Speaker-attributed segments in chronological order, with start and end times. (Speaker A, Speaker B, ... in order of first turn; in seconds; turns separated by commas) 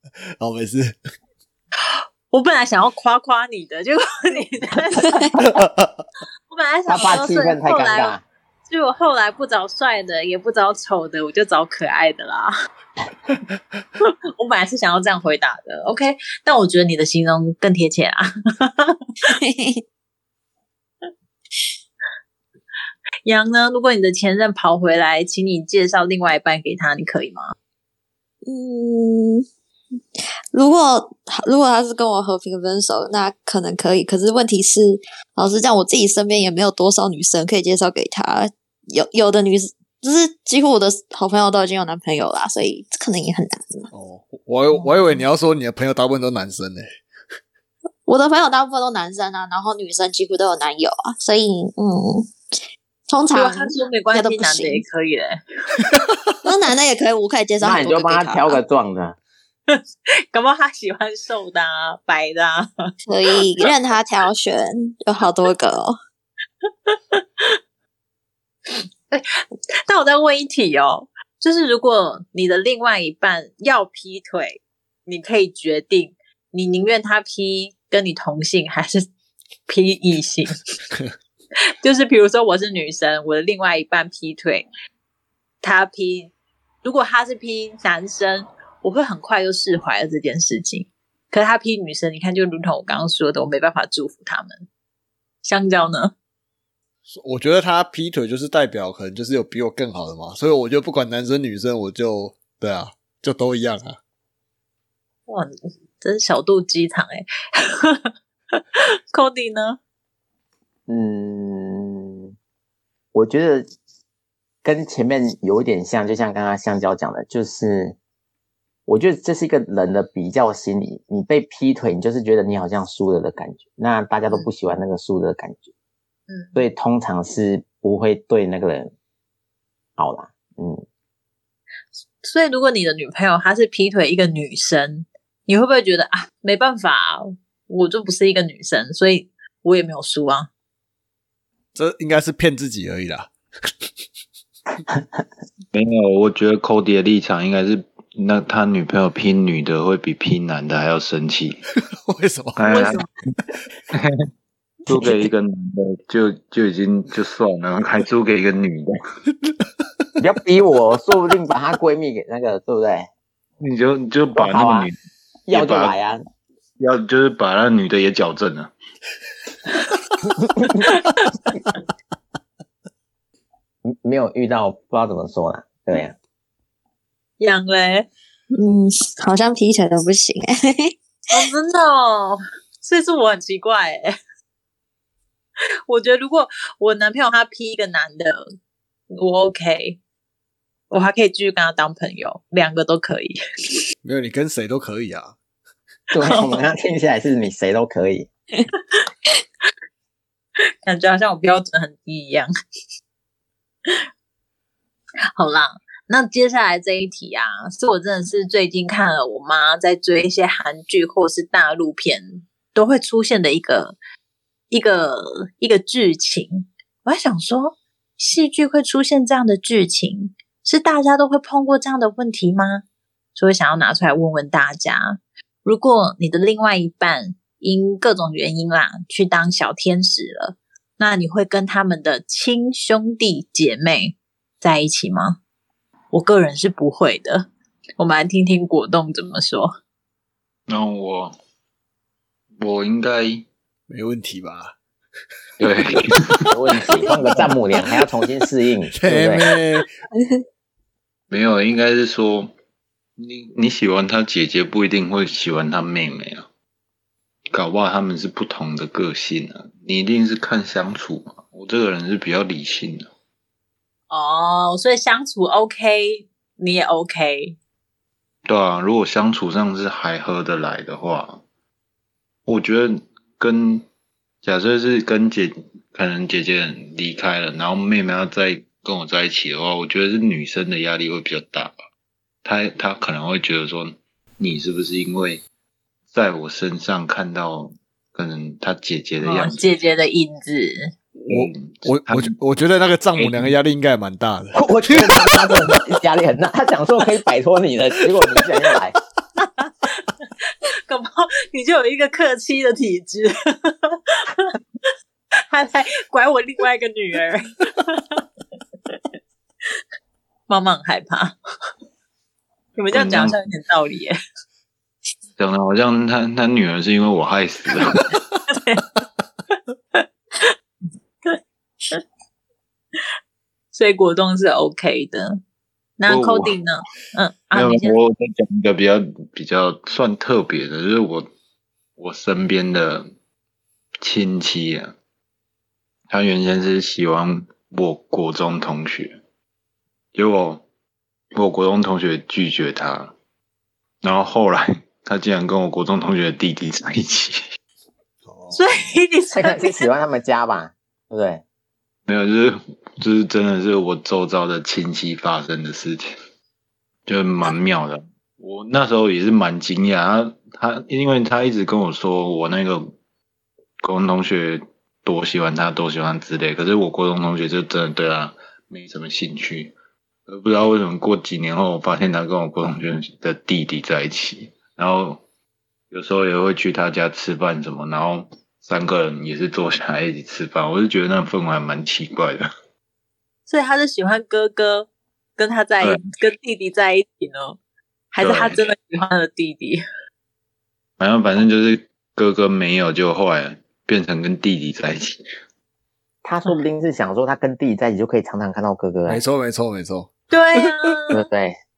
Speaker A: 0.4-1.0, Speaker B: 1.8-5.3, Speaker A: 5.4-6.0, Speaker B: 6.5-12.5, Speaker C: 6.9-8.2, Speaker B: 14.0-19.3, Speaker D: 19.2-19.8, Speaker B: 23.2-27.5, Speaker D: 28.4-29.4, Speaker D: 30.2-43.9, Speaker A: 43.9-47.0, Speaker B: 44.7-45.2, Speaker D: 48.1-54.8, Speaker B: 53.3-56.0, Speaker D: 56.4-58.6, Speaker C: 57.6-59.2, Speaker B: 59.7-62.9, Speaker D: 63.0-66.0, Speaker B: 66.6-67.6, Speaker B: 68.7-79.1, Speaker B: 79.7-80.6, Speaker B: 81.8-84.7, Speaker B: 85.6-86.3, Speaker B: 86.8-94.7, Speaker B: 95.4-96.1, Speaker A: 97.1-104.0, Speaker B: 105.3-109.8, Speaker C: 110.9-112.3, Speaker C: 113.1-113.7, Speaker C: 114.6-118.0, Speaker C: 118.9-125.7, Speaker B: 126.3-126.6, Speaker C: 126.5-128.9, Speaker C: 130.0-130.8, Speaker B: 132.2-140.5, Speaker A: 141.7-143.7, Speaker E: 145.7-151.6, Speaker A: 151.8-152.6, Speaker E: 152.6-153.0, Speaker B: 152.7-153.1, Speaker E: 153.9-154.3, Speaker E: 154.9-159.0, Speaker A: 159.4-160.1, Speaker C: 160.2-163.1, Speaker E: 163.6-164.9, Speaker C: 164.4-164.9, Speaker C: 165.5-166.2, Speaker E: 165.5-165.9, Speaker E: 166.8-168.7, Speaker C: 170.4-170.8, Speaker B: 170.8-171.3, Speaker C: 173.8-176.2, Speaker B: 177.4-178.1, Speaker D: 178.6-180.9, Speaker B: 181.3-184.2, Speaker B: 185.9-188.4, Speaker B: 189.1-190.0, Speaker B: 190.9-193.4, Speaker A: 194.0-195.4, Speaker C: 196.1-198.3, Speaker B: 196.2-196.5, Speaker B: 200.8-202.5, Speaker B: 205.4-213.9, Speaker B: 214.7-222.8, Speaker B: 223.3-235.4, Speaker B: 236.1-239.7, Speaker E: 240.7-241.3, Speaker E: 242.6-243.5, Speaker A: 243.9-244.7, Speaker E: 245.6-246.4, Speaker C: 246.5-249.5, Speaker A: 247.1-247.5, Speaker A: 248.9-249.9, Speaker E: 251.3-252.5, Speaker E: 253.2-256.5, Speaker E: 257.5-263.1, Speaker B: 264.1-267.6, Speaker E: 268.5-271.4, Speaker E: 272.5-273.9, Speaker E: 274.4-281.8, Speaker E: 282.4-285.4, Speaker E: 286.1-289.7, Speaker B: 289.2-290.9, Speaker A: 291.2-295.8, Speaker E: 291.3-292.4, Speaker E: 293.2-293.5, Speaker C: 294.6-299.0, Speaker B: 299.4-304.6, Speaker B: 305.5-308.2, Speaker B: 310.5-311.4, Speaker B: 312.8-314.2, Speaker E: 312.9-313.4, Speaker E: 315.4-318.1, Speaker B: 318.5-318.9, Speaker B: 319.9-320.5, Speaker B: 323.7-325.4, Speaker B: 326.0-328.0, Speaker E: 326.1-326.6, Speaker E: 327.5-331.3, Speaker E: 332.0-333.1, Speaker E: 334.0-334.9, Speaker E: 336.1-339.2, Speaker E: 340.1-340.6, Speaker E: 341.3-343.1, Speaker E: 344.0-347.4, Speaker A: 348.3-348.6, Speaker B: 348.5-349.9, Speaker C: 349.4-351.4, Speaker E: 352.1-356.1, Speaker E: 357.1-362.9, Speaker E: 363.8-369.7, Speaker E: 370.3-375.2, Speaker E: 375.9-382.5, Speaker B: 383.5-387.6, Speaker B: 388.1-389.8, Speaker E: 388.2-388.7, Speaker E: 391.0-395.2, Speaker C: 396.2-399.2, Speaker A: 399.1-400.1, Speaker B: 400.3-401.2, Speaker A: 400.6-401.0, Speaker C: 401.1-401.6